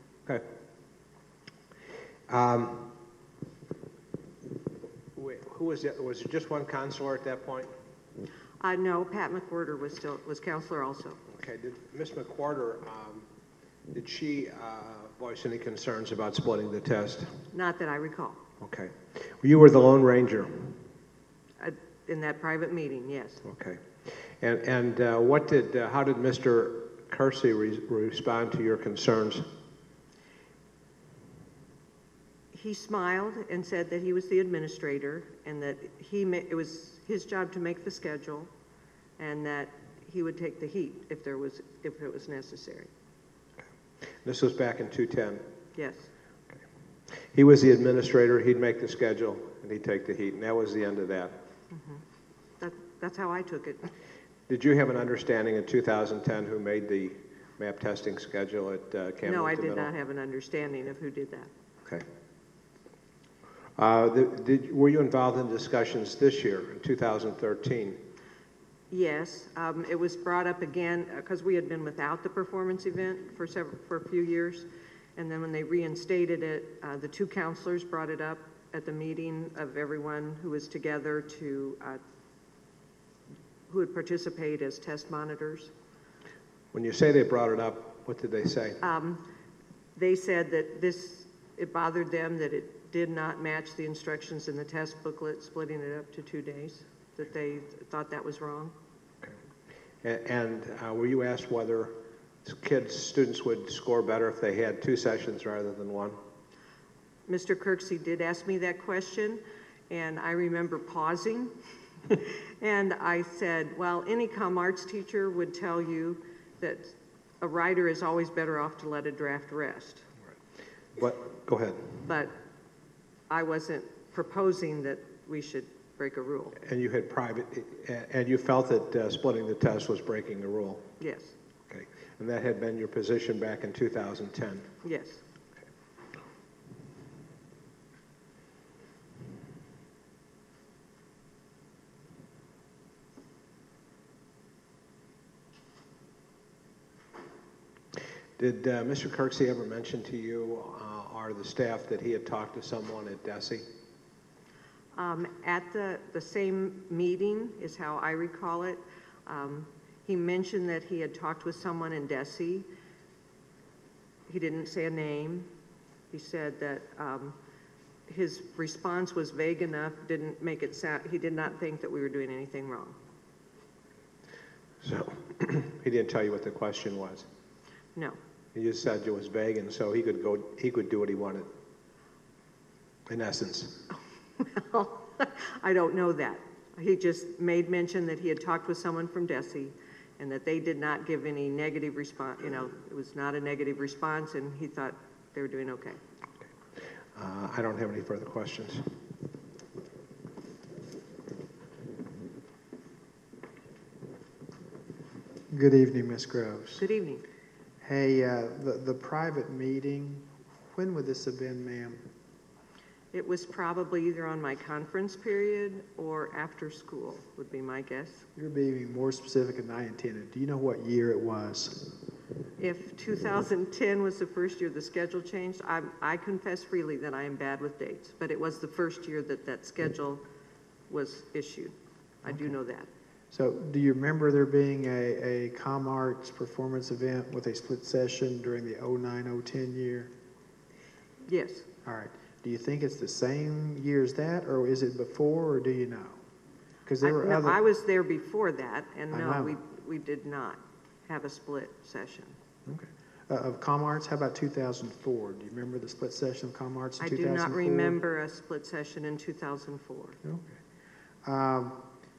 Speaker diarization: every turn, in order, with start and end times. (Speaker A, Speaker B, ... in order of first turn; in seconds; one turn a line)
Speaker A: 2.3-2.9
Speaker A: 5.2-7.7
Speaker B: 8.6-11.2
Speaker A: 11.3-13.2
Speaker A: 13.9-17.4
Speaker B: 17.5-18.4
Speaker A: 18.6-20.8
Speaker B: 21.6-23.4
Speaker A: 23.4-29.4
Speaker B: 32.5-38.5
Speaker B: 39.2-42.9
Speaker A: 44.2-45.4
Speaker B: 45.8-46.1
Speaker A: 47.3-51.4
Speaker B: 51.7-52.0
Speaker B: 52.6-53.9
Speaker A: 54.5-59.9
Speaker B: 59.2-61.5
Speaker A: 63.8-68.0
Speaker B: 68.9-82.0
Speaker B: 83.7-85.7
Speaker A: 86.7-88.8
Speaker B: 88.8-89.2
Speaker B: 90.0-98.7
Speaker A: 100.0-106.2
Speaker B: 107.3-111.5
Speaker B: 112.1-120.0
Speaker A: 121.0-122.0
Speaker B: 122.0-122.3
Speaker B: 123.3-126.6
Speaker A: 126.6-130.9
Speaker B: 131.0-131.3
Speaker A: 131.7-134.7
Speaker B: 134.8-135.2
Speaker A: 148.4-153.6
Speaker B: 154.9-162.7
Speaker B: 164.3-165.5
Speaker B: 166.1-167.3
Speaker B: 168.1-172.9
Speaker A: 174.8-177.3
Speaker A: 178.5-181.5
Speaker A: 183.1-183.8
Speaker B: 184.4-196.0
Speaker A: 197.1-198.9
Speaker C: 205.5-206.8
Speaker B: 206.8-207.2
Speaker C: 207.8-212.0
Speaker B: 213.1-218.2
Speaker C: 218.3-221.9
Speaker B: 222.6-230.2
Speaker B: 230.9-232.9
Speaker C: 232.3-232.5
Speaker C: 233.3-240.1
Speaker B: 241.3-241.7
Speaker C: 241.8-246.2
Speaker C: 246.8-247.6
Speaker B: 247.0-252.3
Speaker C: 249.1-249.6
Speaker C: 252.7-258.0
Speaker B: 257.0-260.2
Speaker C: 260.2-260.6
Speaker C: 261.2-261.8